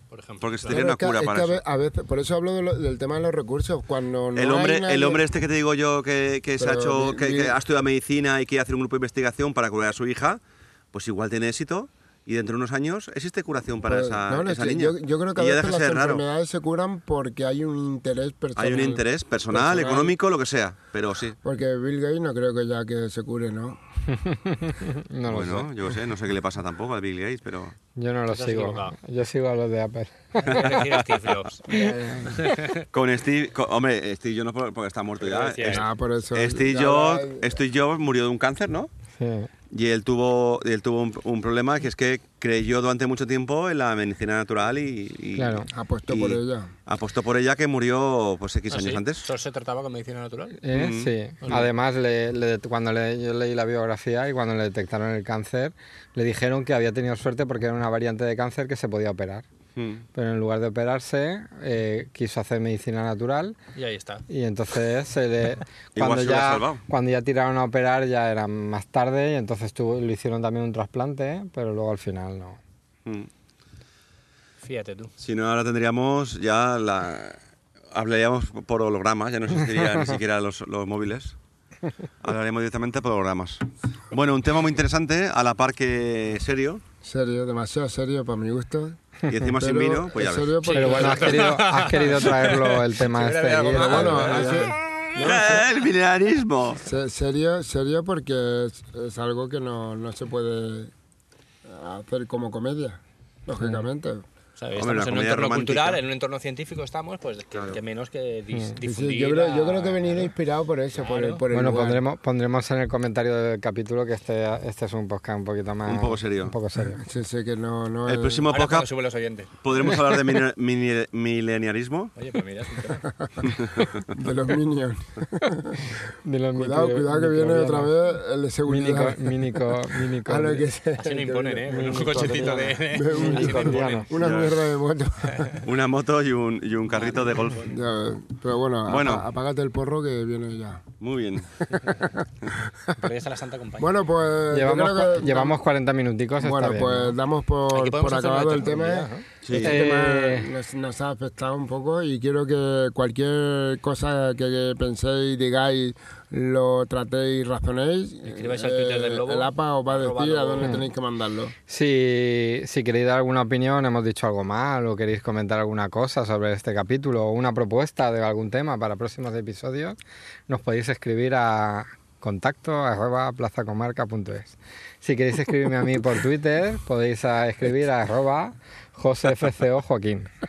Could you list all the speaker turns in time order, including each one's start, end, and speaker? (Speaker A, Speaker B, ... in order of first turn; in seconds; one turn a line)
Speaker A: 0.1-0.7
Speaker B: 0.4-1.6
Speaker C: 0.7-5.2
Speaker B: 4.3-10.4
Speaker C: 6.6-7.5
Speaker B: 10.9-16.2
Speaker C: 13.9-20.1
Speaker B: 18.6-21.4
Speaker C: 21.4-23.8
Speaker D: 24.1-25.7
Speaker B: 25.3-27.7
Speaker D: 27.9-30.7
Speaker A: 28.3-28.9
Speaker A: 30.4-32.8
Speaker B: 30.5-30.8
Speaker C: 31.7-32.5
Speaker B: 32.9-38.9
Speaker A: 35.2-35.8
Speaker C: 35.6-37.5
Speaker D: 39.2-39.5
Speaker B: 39.7-49.2
Speaker D: 45.4-45.7
Speaker C: 45.7-46.7
Speaker A: 48.7-50.6
Speaker D: 50.6-59.5
Speaker B: 50.7-51.6
Speaker B: 59.8-60.0
Speaker D: 60.1-63.5
Speaker A: 63.7-64.2
Speaker D: 64.3-72.6
Speaker B: 65.9-66.8
Speaker A: 74.6-75.1
Speaker B: 75.2-77.4
Speaker B: 77.9-81.3
Speaker B: 82.2-86.8
Speaker C: 87.0-89.0
Speaker B: 89.3-91.0
Speaker C: 89.6-91.5
Speaker A: 90.6-94.8
Speaker D: 90.7-94.7
Speaker C: 93.6-95.6
Speaker B: 95.1-96.8
Speaker C: 96.8-100.9
Speaker C: 101.7-104.2
Speaker A: 104.6-110.3
Speaker B: 104.7-106.0
Speaker C: 108.8-112.0
Speaker A: 110.9-111.4
Speaker D: 111.5-117.0
Speaker B: 115.8-116.5
Speaker C: 117.0-118.5
Speaker B: 118.0-118.9
Speaker A: 118.5-119.5
Speaker B: 119.6-122.1
Speaker A: 122.2-123.1
Speaker C: 123.0-126.0
Speaker B: 123.5-123.8
Speaker D: 126.2-127.9
Speaker C: 126.5-135.6
Speaker D: 128.7-130.7
Speaker A: 131.0-134.1
Speaker D: 131.7-134.1
Speaker B: 134.2-134.6
Speaker B: 135.6-137.7
Speaker A: 136.9-137.8
Speaker C: 137.7-140.8
Speaker B: 138.8-139.3
Speaker B: 141.0-141.7
Speaker C: 141.6-143.0
Speaker A: 142.9-143.9
Speaker C: 143.8-145.6
Speaker D: 144.5-147.2
Speaker C: 146.4-161.5
Speaker A: 147.7-149.2
Speaker B: 149.4-149.8
Speaker D: 149.6-150.5
Speaker A: 158.2-160.8
Speaker D: 161.7-180.3